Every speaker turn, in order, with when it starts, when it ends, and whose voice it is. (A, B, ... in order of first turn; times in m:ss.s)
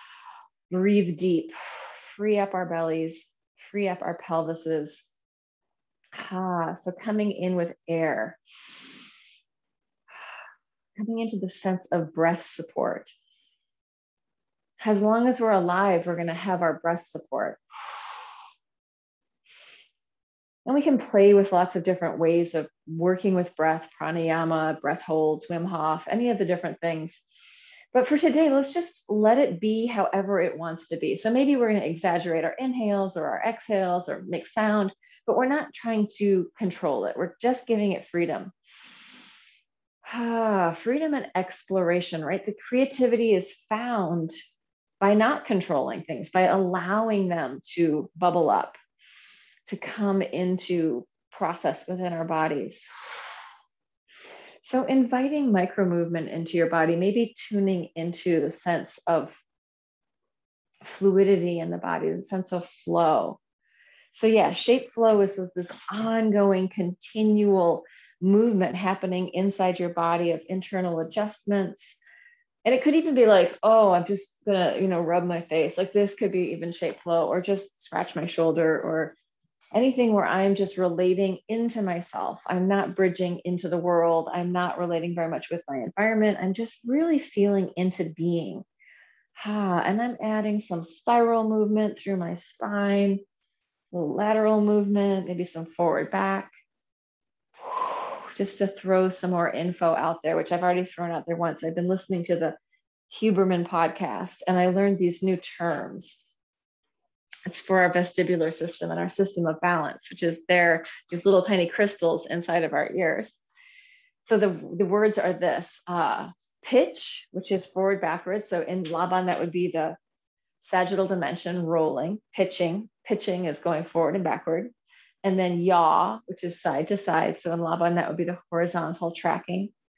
0:00.7-0:05.1 A
0:06.2-0:08.8 A
0:11.0-0:13.1 A
0:14.8-0:18.1 A
0:20.6-0:27.4 A
0:27.9-0:39.1 A
0:40.0-0:44.3 A
0:45.0-0:48.8 A
0:49.7-0:53.3 A
0:54.6-0:59.4 A
1:00.8-1:03.4 A
1:04.1-1:12.0 A
1:12.6-1:19.2 A
1:19.8-1:28.7 A
1:29.4-1:33.2 A
1:33.9-1:36.5 A
1:37.6-1:42.6 A
1:43.1-1:46.3 A
1:47.5-1:53.4 A
1:54.2-2:00.0 A
2:00.6-2:04.7 A
2:05.2-2:09.7 A